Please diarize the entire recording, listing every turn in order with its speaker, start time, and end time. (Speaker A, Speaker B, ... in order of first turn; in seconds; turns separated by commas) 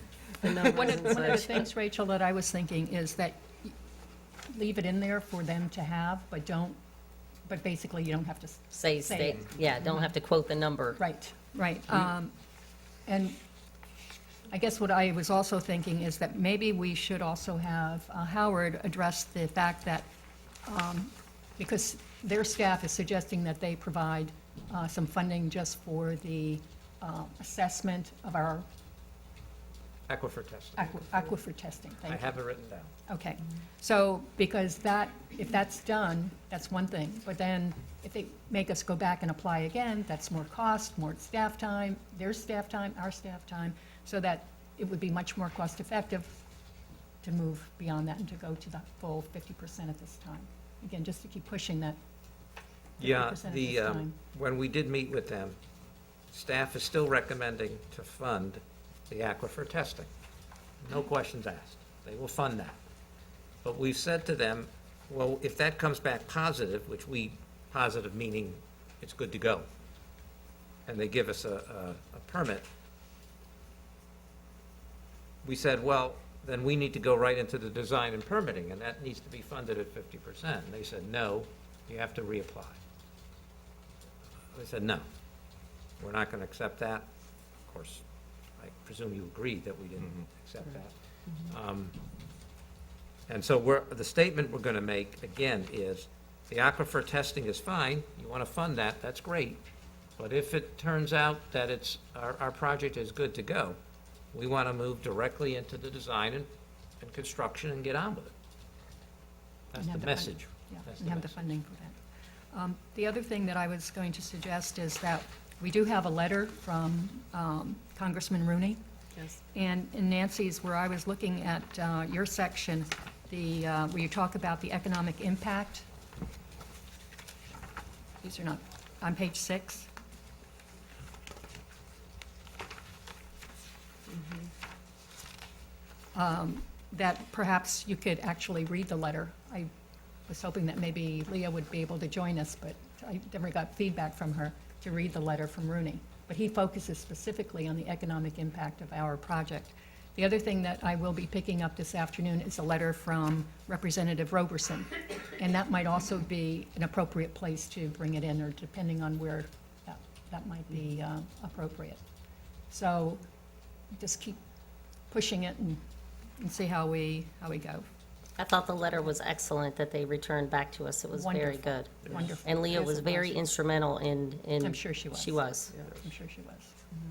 Speaker A: 0.4-1.7, Speaker B: 0.5-3.7, Speaker B: 4.5-6.8, Speaker B: 7.5-10.1, Speaker A: 8.7-11.0, Speaker B: 11.0-12.3, Speaker B: 13.1-13.4, Speaker B: 14.5-20.1, Speaker B: 20.6-28.6, Speaker C: 30.1-31.4, Speaker B: 30.8-32.4, Speaker C: 32.1-32.9, Speaker B: 33.1-46.4, Speaker B: 47.2-52.0, Speaker B: 53.0-54.1, Speaker C: 53.0-55.6, Speaker C: 56.3-60.1, Speaker C: 60.8-62.8, Speaker C: 63.6-69.7, Speaker C: 70.9-72.7, Speaker C: 75.4-82.8, Speaker C: 84.5-85.1, Speaker C: 86.0-87.1, Speaker C: 87.7-88.0, Speaker C: 88.6-92.0, Speaker C: 93.3-99.6, Speaker C: 100.2-103.8, Speaker C: 104.3-106.5, Speaker C: 107.0-108.3, Speaker C: 109.7-111.5, Speaker B: 109.8-112.0, Speaker B: 112.5-118.8, Speaker B: 119.5-125.8, Speaker B: 128.2-129.9, Speaker B: 136.2-139.7, Speaker B: 140.3-162.0, Speaker B: 162.7-163.2, Speaker B: 163.9-164.4, Speaker B: 165.1-165.8, Speaker B: 166.4-167.9, Speaker A: 168.4-175.7, Speaker B: 171.1-173.4, Speaker B: 174.6-176.8